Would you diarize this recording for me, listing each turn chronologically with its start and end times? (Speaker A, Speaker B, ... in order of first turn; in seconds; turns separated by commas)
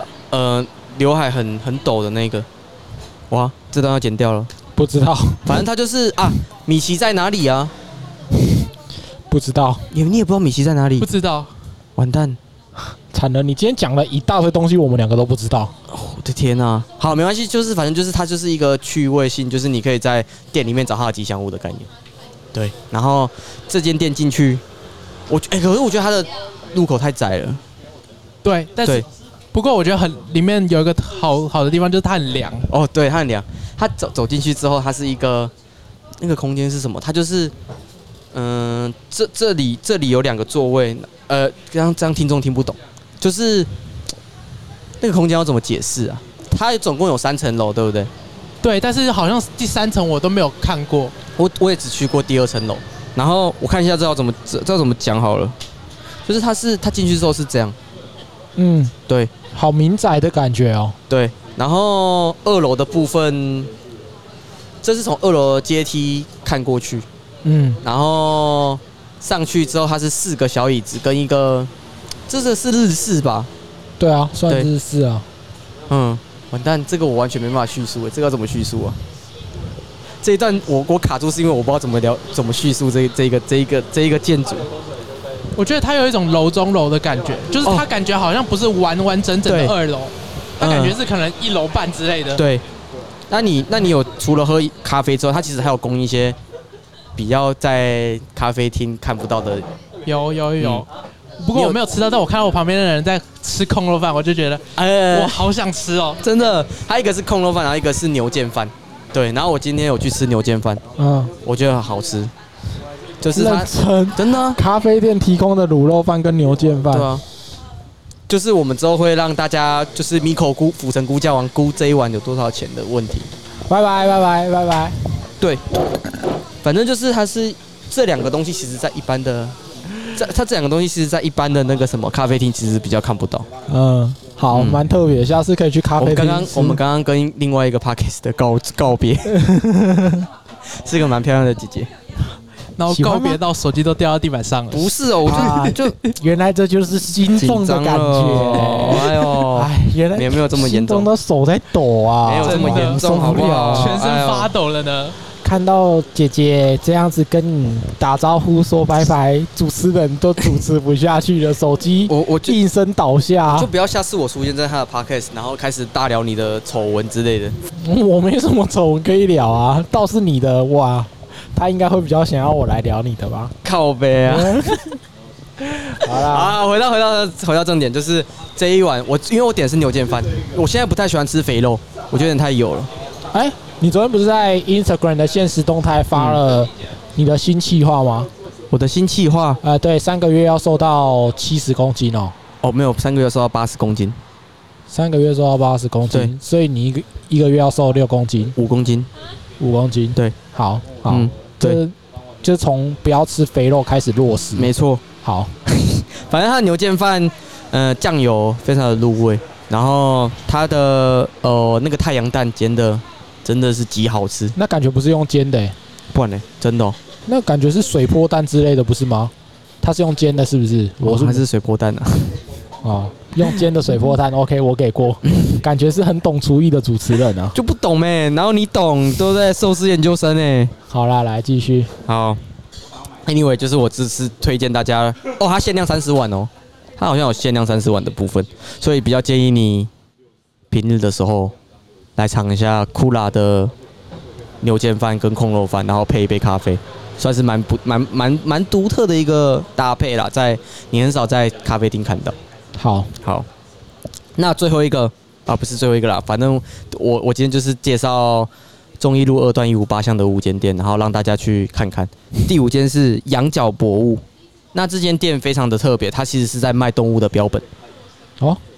Speaker A: 0.3-2.5, Speaker A: 3.3-4.5, Speaker B: 4.8-5.6, Speaker A: 5.5-7.7, Speaker B: 9.3-9.9, Speaker A: 9.9-11.1, Speaker C: 11.0-11.5, Speaker A: 11.9-12.4, Speaker B: 13.1-15.7, Speaker A: 15.9-21.9, Speaker A: 22.5-24.6, Speaker A: 25.3-27.6, Speaker C: 28.4-32.7, Speaker A: 32.7-35.5, Speaker A: 36.2-37.5, Speaker A: 38.3-43.7, Speaker A: 45.0-48.1, Speaker C: 48.6-51.1, Speaker A: 51.4-55.5, Speaker A: 56.2-57.8, Speaker B: 58.6-58.9, Speaker B: 59.5-61.0, Speaker A: 61.1-63.7, Speaker A: 64.8-67.0, Speaker B: 67.4-67.8, Speaker A: 67.8-71.7, Speaker A: 72.3-73.5, Speaker B: 74.0-75.2, Speaker A: 75.9-79.0, Speaker A: 80.2-84.7, Speaker C: 85.5-92.4, Speaker A: 89.5-89.8, Speaker A: 90.6-91.0, Speaker A: 92.3-92.6, Speaker A: 93.3-96.4, Speaker A: 97.2-99.7, Speaker C: 100.0-100.9, Speaker A: 100.6-100.8, Speaker C: 101.4-106.2, Speaker A: 101.5-101.8, Speaker A: 104.8-105.4, Speaker A: 106.2-110.8, Speaker B: 111.0-111.3, Speaker A: 111.4-112.3, Speaker A: 113.2-114.6, Speaker B: 113.3-117.1, Speaker A: 116.9-117.2, Speaker A: 118.3-123.3, Speaker B: 123.7-125.0, Speaker A: 126.6-133.5, Speaker B: 133.7-136.8, Speaker A: 134.5-134.8, Speaker A: 136.0-139.4, Speaker B: 139.3-140.3, Speaker A: 140.7-141.9, Speaker C: 142.8-145.7, Speaker B: 142.9-143.4, Speaker A: 144.7-146.0, Speaker B: 145.3-154.0, Speaker A: 147.3-151.1, Speaker A: 152.2-154.5, Speaker C: 152.4-155.2, Speaker B: 155.4-163.7, Speaker A: 162.1-162.6, Speaker A: 163.5-167.6, Speaker B: 167.8-173.5, Speaker A: 173.6-174.8, Speaker B: 174.2-174.9, Speaker B: 175.8-176.6, Speaker A: 176.0-182.9, Speaker B: 183.3-188.3, Speaker A: 186.1-186.4, Speaker A: 188.7-189.6, Speaker B: 189.6-192.3, Speaker A: 192.6-194.2, Speaker B: 194.9-198.6, Speaker A: 198.6-199.1, Speaker B: 199.6-205.6, Speaker A: 201.1-201.8, Speaker A: 204.5-205.0, Speaker A: 205.7-214.5, Speaker B: 214.6-215.8, Speaker A: 216.1-217.0, Speaker B: 217.2-221.4, Speaker A: 221.0-222.4, Speaker B: 222.8-227.6, Speaker A: 227.5-230.7, Speaker B: 230.9-231.9, Speaker A: 232.1-232.4, Speaker A: 233.2-239.9, Speaker A: 240.7-241.5, Speaker A: 242.2-243.7, Speaker A: 244.6-252.3, Speaker B: 252.8-253.1, Speaker A: 253.2-253.5, Speaker A: 254.3-267.6